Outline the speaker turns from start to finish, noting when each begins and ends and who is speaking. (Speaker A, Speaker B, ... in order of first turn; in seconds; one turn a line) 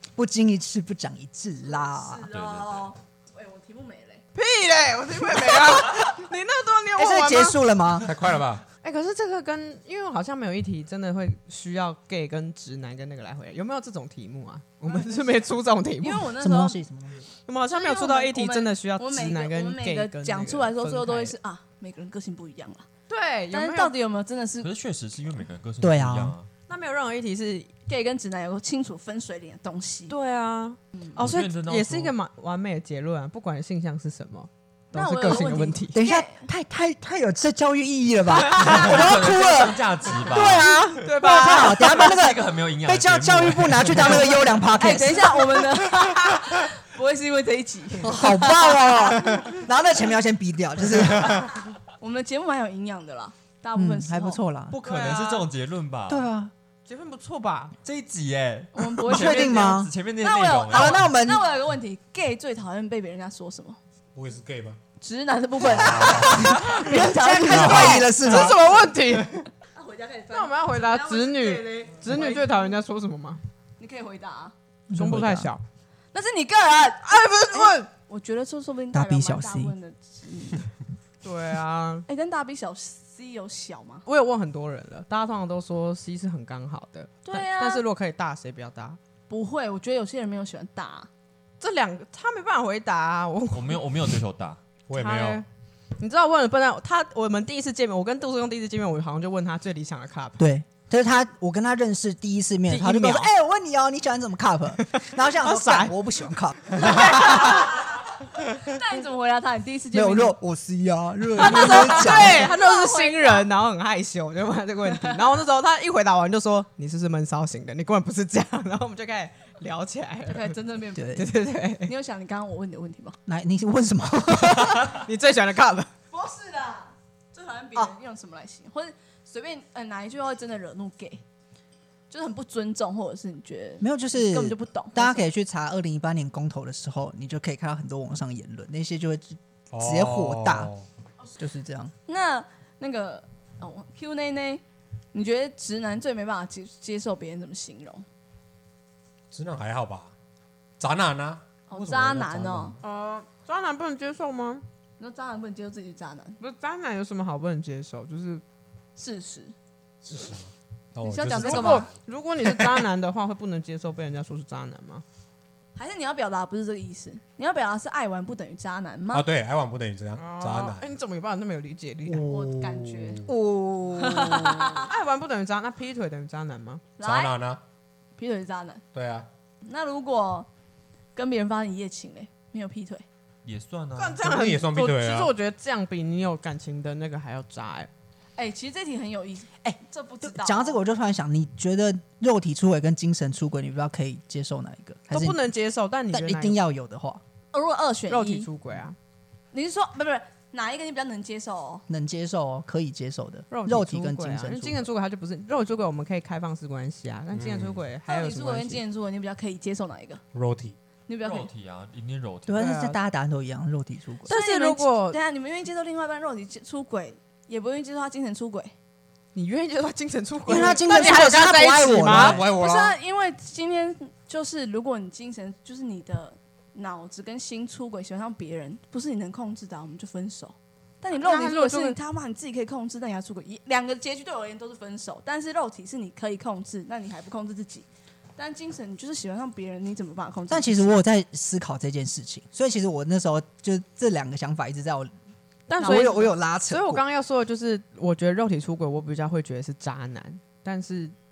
Speaker A: 0.1-2.2
Speaker B: 1.6-4.2
Speaker C: 2.3-2.9
Speaker D: 4.3-7.6
Speaker A: 5.5-6.1
Speaker A: 7.0-8.1
Speaker E: 8.0-8.6
Speaker D: 8.8-16.3
Speaker B: 14.9-15.3
Speaker B: 16.0-16.8
Speaker A: 16.4-17.2
Speaker D: 17.4-21.4
Speaker B: 17.7-22.9
Speaker D: 23.1-23.9
Speaker B: 23.5-24.7
Speaker C: 24.6-26.5
Speaker A: 25.8-26.3
Speaker D: 26.7-27.7
Speaker B: 27.9-30.1
Speaker D: 30.1-36.0
Speaker C: 31.2-32.1
Speaker B: 34.9-36.5
Speaker A: 35.9-45.7
Speaker D: 38.4-39.0
Speaker C: 38.5-40.8
Speaker D: 40.9-42.1
Speaker C: 41.8-44.4
Speaker B: 44.8-49.5
Speaker A: 48.0-51.5
Speaker E: 51.1-51.5
Speaker B: 52.0-54.4
Speaker A: 53.7-54.8
Speaker D: 54.7-55.5
Speaker C: 54.8-56.3
Speaker A: 56.1-56.5
Speaker D: 56.9-57.7
Speaker C: 57.8-61.1
Speaker B: 58.7-63.8
Speaker A: 59.1-59.9
Speaker A: 60.7-61.5
Speaker E: 64.1-64.8
Speaker B: 65.0-68.1
Speaker E: 65.7-66.5
Speaker A: 66.0-68.7
Speaker D: 66.5-69.4
Speaker E: 67.5-67.9
Speaker B: 69.7-72.7
Speaker D: 70.3-73.4
Speaker B: 73.8-74.5
Speaker A: 74.9-75.5
Speaker D: 74.9-75.6
Speaker B: 76.1-80.7
Speaker D: 77.0-77.9
Speaker A: 78.9-79.7
Speaker D: 81.2-82.0
Speaker B: 82.1-84.0
Speaker D: 84.0-89.0
Speaker B: 87.2-87.8
Speaker B: 89.3-91.1
Speaker D: 91.6-93.8
Speaker C: 93.5-94.6
Speaker E: 94.9-95.4
Speaker D: 94.9-95.5
Speaker D: 96.0-100.4
Speaker A: 100.4-107.5
Speaker D: 102.7-103.3
Speaker D: 104.8-105.9
Speaker B: 106.8-110.3
Speaker A: 109.9-112.5
Speaker D: 111.4-120.6
Speaker B: 111.4-113.5
Speaker B: 120.3-123.2
Speaker A: 120.9-121.3
Speaker D: 121.1-121.9
Speaker A: 123.2-125.0
Speaker D: 124.3-125.9
Speaker B: 126.1-131.2
Speaker B: 132.1-135.2
Speaker A: 133.8-140.7
Speaker E: 139.7-140.8
Speaker A: 141.4-141.9
Speaker B: 142.1-148.0
Speaker E: 149.3-150.1
Speaker E: 150.8-152.8
Speaker B: 151.7-152.8
Speaker D: 152.8-154.6
Speaker B: 155.0-156.4
Speaker D: 156.4-158.4
Speaker B: 158.9-159.5
Speaker E: 160.0-162.8
Speaker B: 161.0-161.9
Speaker D: 161.3-165.0
Speaker B: 165.8-169.2
Speaker E: 169.1-170.8
Speaker D: 170.2-172.3
Speaker E: 172.1-173.3
Speaker B: 172.3-173.2
Speaker A: 173.3-174.5
Speaker D: 173.3-176.8
Speaker B: 174.0-174.9
Speaker B: 177.0-177.3
Speaker E: 177.0-177.6
Speaker B: 178.2-178.8
Speaker E: 178.9-179.3
Speaker B: 179.6-180.5
Speaker B: 181.1-183.0
Speaker C: 183.4-184.2
Speaker D: 183.9-187.9
Speaker E: 184.2-185.3
Speaker B: 188.4-190.8
Speaker A: 189.7-195.4
Speaker D: 195.1-196.6
Speaker A: 196.1-197.2
Speaker B: 197.5-198.5
Speaker D: 198.1-198.9
Speaker B: 199.5-201.8
Speaker A: 201.9-204.8
Speaker D: 203.5-208.8
Speaker E: 207.3-207.8
Speaker B: 208.0-210.2
Speaker E: 210.3-210.8
Speaker B: 211.1-211.5
Speaker C: 211.2-212.6
Speaker A: 212.5-214.3
Speaker D: 212.6-213.0
Speaker D: 214.3-215.2
Speaker B: 214.3-218.7
Speaker D: 219.3-222.4
Speaker A: 220.4-222.4
Speaker E: 222.1-223.0
Speaker B: 222.4-237.8
Speaker D: 231.1-232.0
Speaker B: 238.4-240.9
Speaker A: 240.5-245.1
Speaker D: 245.7-251.1
Speaker B: 245.8-246.2
Speaker A: 245.8-247.0